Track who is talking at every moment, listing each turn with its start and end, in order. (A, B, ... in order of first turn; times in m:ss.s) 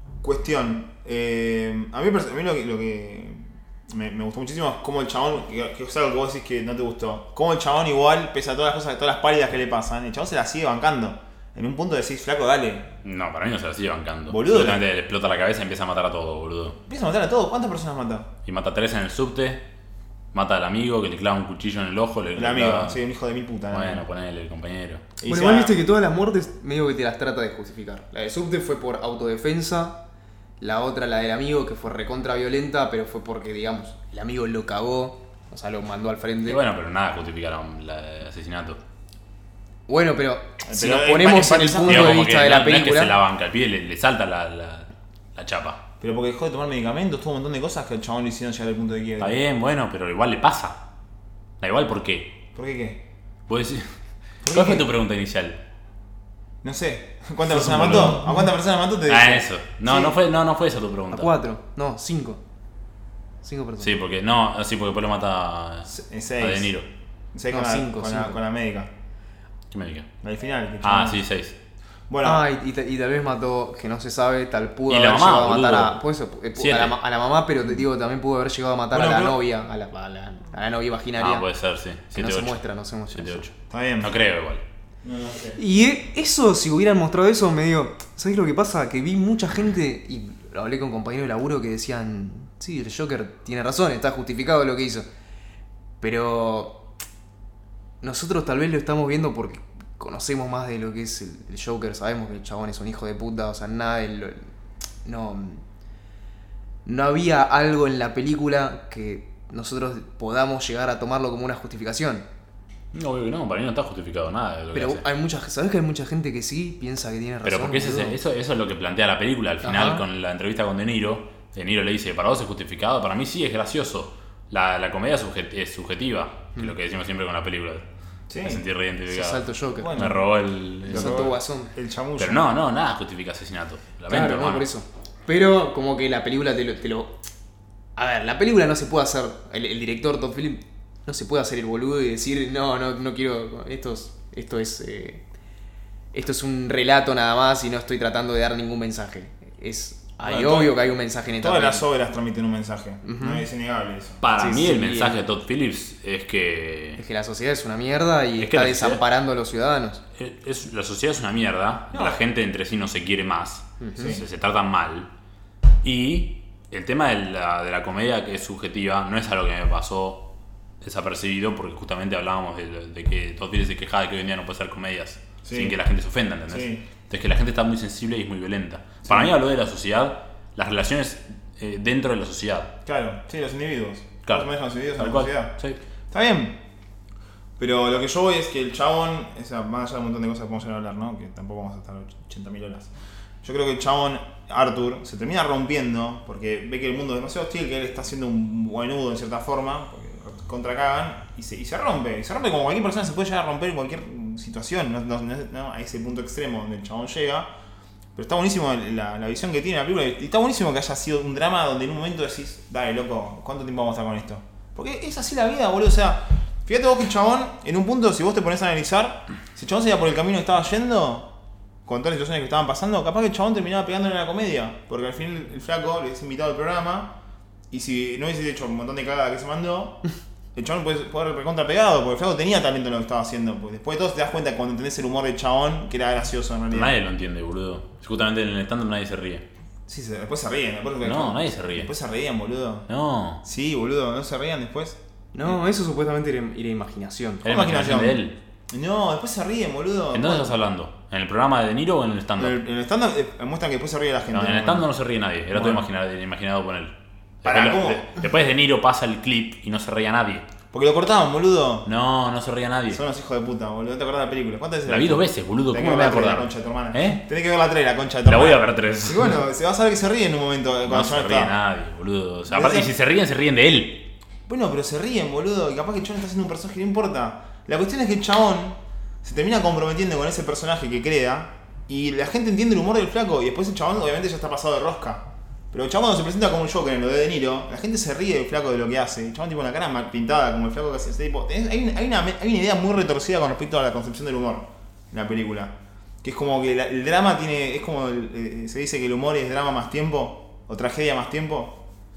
0:00.2-0:12.9 A
0:13.0-0:16.8 B
0:14.3-0:14.8 A
0:16.9-0:18.3 A
0:18.4-0:19.6 B
0:20.3-0:23.0 B
0:22.3-0:24.0 A
0:23.7-0:25.0 B
0:25.2-0:25.8 A
0:25.3-0:30.0 C
0:30.6-0:36.6 C
0:36.4-0:38.8 B
0:39.9-0:43.1 C
0:40.6-0:42.3 A
0:41.8-0:45.8 B
0:46.0-0:49.4 A
0:49.2-0:50.8 B
0:51.6-0:52.3 B
0:52.5-0:53.0 A
0:53.5-0:53.9 B
0:54.4-0:54.9 A
0:54.4-0:55.6 B
0:56.6-1:00.2 A
0:57.5-0:58.2 B
0:59.1-1:01.3 B
1:01.1-1:02.4 C
1:03.4-1:03.9 C
1:03.8-1:06.9 B
1:05.9-1:06.7 A
1:07.3-1:08.9 A
1:07.5-1:08.4 C
1:09.7-1:10.1 B
1:10.2-1:11.2 A
1:10.8-1:11.6 B
1:12.1-1:12.4 A
1:12.2-1:21.4 C
1:14.9-1:16.0 B
1:16.6-1:17.0 B
1:18.9-1:19.4 A
1:21.2-1:24.6 B
1:22.1-1:23.5 C
1:23.7-1:24.2 A
1:25.0-1:25.6 A
1:25.6-1:35.0 C
1:36.0-1:36.8 C
1:38.0-1:44.5 C
1:45.0-1:45.6 C
1:46.8-1:52.2 C
1:52.9-1:55.0 B
1:54.7-1:58.2 C
1:57.4-2:07.8 B
1:59.6-2:00.0 C
2:08.3-2:08.6 A
2:08.4-2:11.3 B
2:09.1-2:10.1 C
2:09.8-2:10.2 A
2:10.8-2:11.7 C
2:10.8-2:12.4 A
2:12.2-2:14.7 B
2:14.1-2:17.2 C
2:18.0-2:25.2 C
2:26.1-2:31.8 C
2:30.4-2:30.7 B
2:31.4-2:34.2 A
2:33.0-2:33.4 C
2:34.2-2:37.0 B
2:34.4-2:35.2 C
2:37.0-2:40.0 C
2:38.4-2:39.0 B
2:40.2-2:45.1 B
2:41.9-2:42.2 A
2:43.8-2:44.2 C
2:44.0-2:44.2 A
2:45.8-2:50.2 B
2:50.8-3:02.7 B
2:55.4-2:55.8 A
2:56.5-2:56.8 A
2:59.0-2:59.4 A
3:02.8-3:05.5 A
3:04.3-3:05.8 B
3:06.1-3:06.6 A
3:07.6-3:12.9 A
3:13.4-3:27.5 A
3:28.1-3:41.3 A
3:41.8-3:47.1 A
3:47.7-3:50.0 A
3:50.5-3:57.0 A
3:56.7-3:59.4 B
3:59.9-4:02.9 A
4:01.0-4:01.9 B
4:02.9-4:03.4 B
4:03.4-4:05.0 A
4:05.3-4:07.4 C
4:07.4-4:08.4 B
4:07.4-4:10.6 A
4:10.1-4:12.6 B
4:12.4-4:14.9 A
4:14.3-4:20.4 B
4:15.5-4:15.9 A
4:17.4-4:18.2 A
4:20.7-4:21.9 A
4:21.8-4:23.0 B
4:22.9-4:31.5 A
4:24.9-4:27.2 B
4:28.2-4:29.3 B
4:30.9-4:34.0 B
4:32.5-4:32.9 A
4:34.5-5:01.8 A